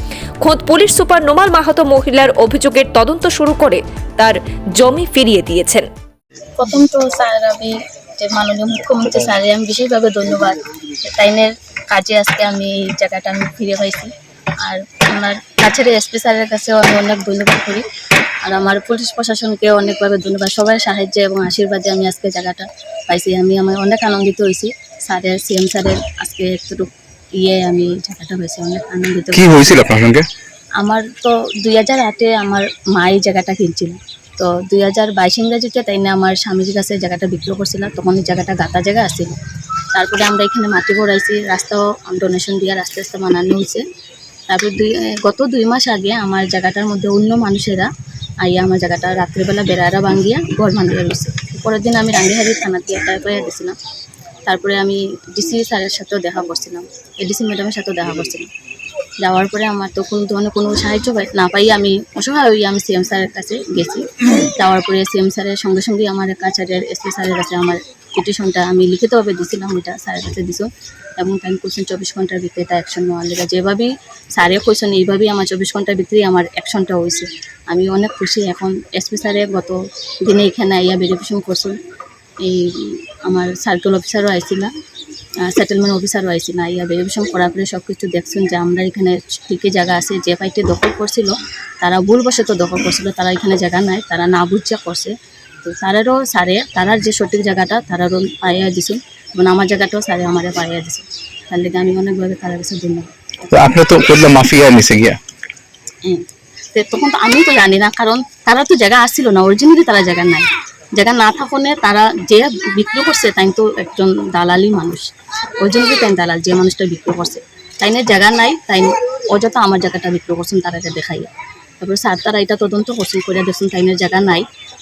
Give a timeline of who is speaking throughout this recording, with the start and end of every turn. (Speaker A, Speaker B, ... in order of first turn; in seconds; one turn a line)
Speaker A: 0.4-5.9
Speaker B: 6.6-14.1
Speaker B: 14.6-17.9
Speaker B: 18.4-29.9
Speaker C: 29.3-30.3
Speaker B: 30.8-39.3
Speaker B: 39.9-43.8
Speaker B: 44.5-47.9
Speaker B: 48.4-53.7
Speaker B: 54.5-58.5
Speaker B: 59.2-81.8
Speaker B: 82.4-84.7
Speaker B: 85.5-103.1
Speaker C: 103.5-105.2
Speaker B: 106.8-115.1
Speaker B: 115.6-124.5